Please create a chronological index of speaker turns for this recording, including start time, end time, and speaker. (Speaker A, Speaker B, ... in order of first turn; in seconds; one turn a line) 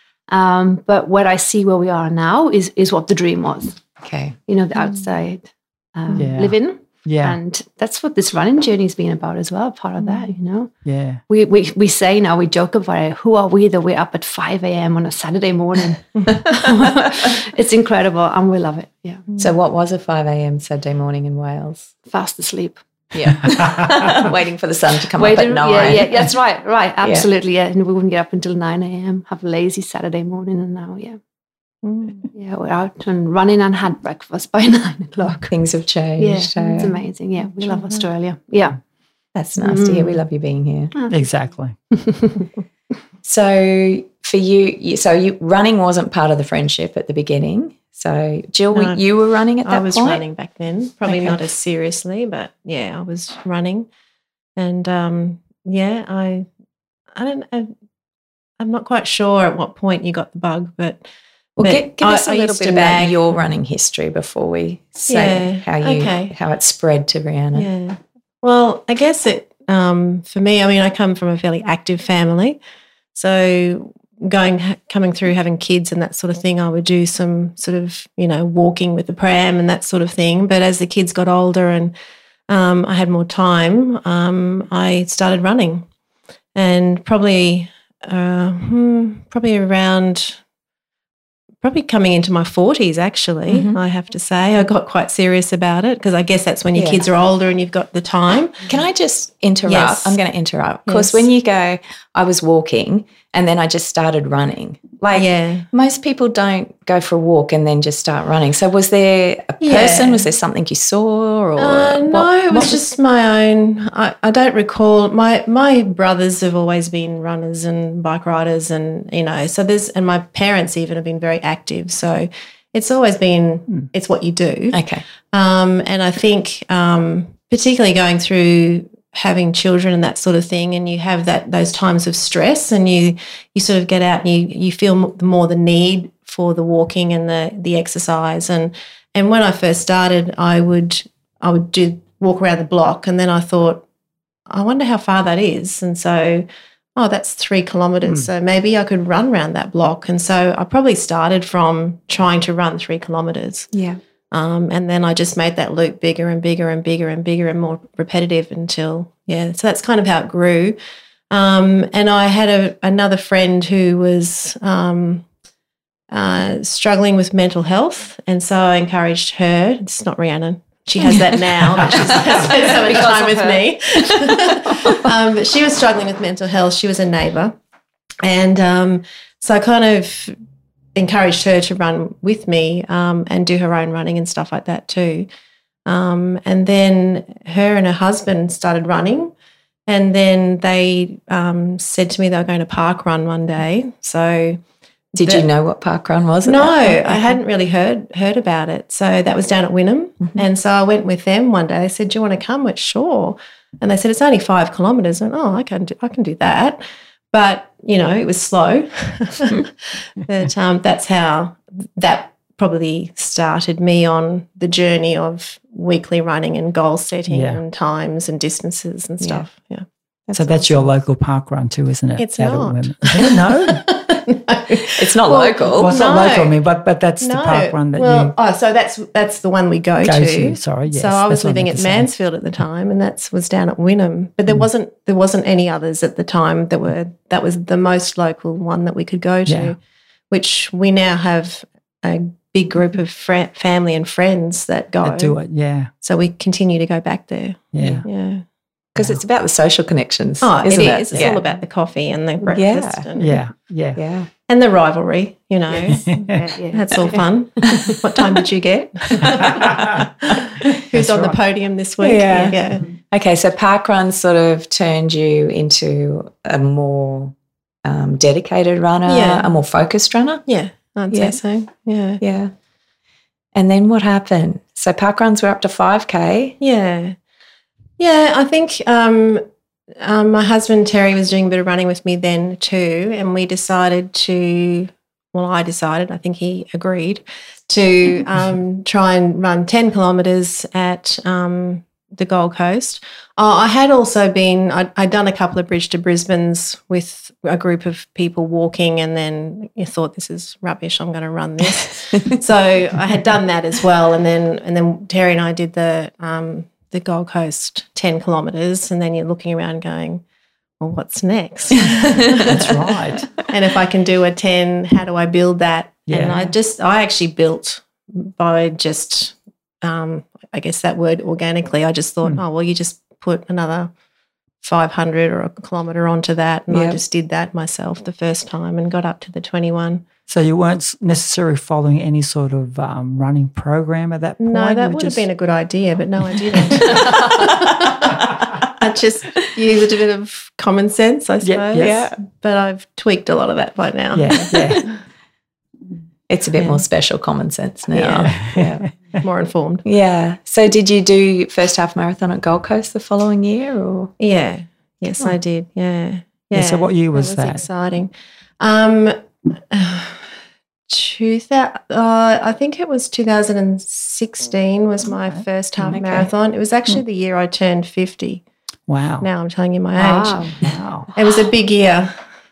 Speaker A: 0.3-3.8
Speaker B: 4.0-4.3
Speaker A: 4.5-10.7
Speaker C: 6.1-7.4
Speaker D: 10.0-10.3
Speaker C: 10.8-11.2
Speaker A: 11.3-19.3
Speaker B: 19.4-21.9
Speaker A: 22.1-22.8
Speaker B: 23.1-26.3
Speaker A: 25.1-31.2
Speaker B: 27.0-27.3
Speaker D: 31.8-32.3
Speaker A: 32.3-35.5
Speaker B: 35.5-37.0
Speaker A: 36.2-38.8
Speaker D: 37.6-38.1
Speaker B: 39.4-40.9
Speaker D: 39.6-40.2
Speaker C: 41.1-41.7
Speaker B: 43.2-50.2
Speaker D: 48.7-49.0
Speaker D: 49.6-53.9
Speaker B: 51.0-51.4
Speaker D: 54.5-56.5
Speaker D: 57.1-57.7
Speaker D: 58.6-61.0
Speaker D: 61.6-63.3
Speaker B: 61.6-67.7
Speaker D: 65.1-66.3
Speaker D: 67.5-72.6
Speaker D: 73.1-81.9
Speaker D: 82.5-85.8
Speaker D: 86.5-90.4
Speaker D: 91.6-98.7
Speaker B: 93.5-93.8
Speaker B: 96.7-97.0
Speaker B: 98.7-112.8
Speaker D: 99.7-100.2
Speaker D: 100.9-101.3
Speaker D: 105.1-105.7
Speaker D: 109.6-110.3
Speaker D: 111.6-124.8
Speaker B: 124.7-125.0
Speaker D: 125.3-143.8
Speaker D: 144.5-153.7
Speaker B: 153.7-154.0
Speaker D: 154.3-160.8
Speaker D: 161.3-165.2
Speaker D: 166.1-177.5
Speaker A: 171.9-175.1
Speaker D: 178.2-180.3
Speaker D: 180.9-185.3
Speaker D: 185.8-189.3
Speaker D: 189.9-194.6
Speaker D: 195.1-195.4
Speaker B: 195.2-197.4
Speaker D: 196.4-206.8
Speaker D: 207.3-220.9
Speaker C: 217.3-217.6
Speaker B: 219.2-219.4
Speaker C: 220.3-223.8
Speaker D: 222.2-226.6
Speaker B: 224.9-225.9
Speaker C: 225.8-228.3
Speaker D: 227.2-239.8
Speaker C: 230.0-232.1
Speaker C: 239.5-239.7
Speaker D: 240.3-245.4
Speaker C: 245.0-245.9
Speaker D: 246.0-248.4
Speaker C: 247.7-248.1
Speaker B: 248.9-251.4
Speaker D: 250.4-253.4
Speaker B: 252.5-253.1
Speaker C: 253.2-254.0
Speaker B: 253.9-254.3
Speaker D: 254.5-256.1
Speaker A: 255.8-257.9
Speaker C: 255.9-256.4
Speaker D: 256.7-262.9
Speaker C: 259.3-260.0
Speaker C: 260.9-261.4
Speaker B: 262.0-270.4
Speaker D: 269.1-269.5
Speaker D: 270.5-272.2
Speaker B: 271.1-271.4
Speaker B: 272.2-272.5
Speaker B: 273.5-276.6
Speaker D: 276.6-277.1
Speaker D: 278.0-279.4
Speaker D: 280.0-310.2
Speaker D: 310.8-312.8
Speaker B: 311.7-312.7
Speaker C: 312.4-313.3
Speaker D: 313.4-323.9
Speaker C: 316.1-316.4
Speaker D: 324.6-330.0
Speaker B: 326.7-327.0
Speaker C: 330.3-335.3
Speaker D: 334.4-344.8
Speaker C: 341.4-342.0
Speaker B: 341.8-342.2
Speaker C: 344.1-344.9
Speaker B: 346.3-348.8
Speaker D: 347.9-348.4
Speaker C: 348.3-348.9
Speaker D: 349.1-349.8
Speaker B: 349.8-354.1
Speaker D: 354.2-360.2
Speaker C: 356.5-357.6
Speaker D: 360.9-368.4
Speaker B: 365.8-366.3
Speaker C: 368.9-369.3
Speaker D: 369.2-370.5
Speaker A: 369.9-370.6
Speaker C: 370.6-371.1
Speaker D: 371.1-372.1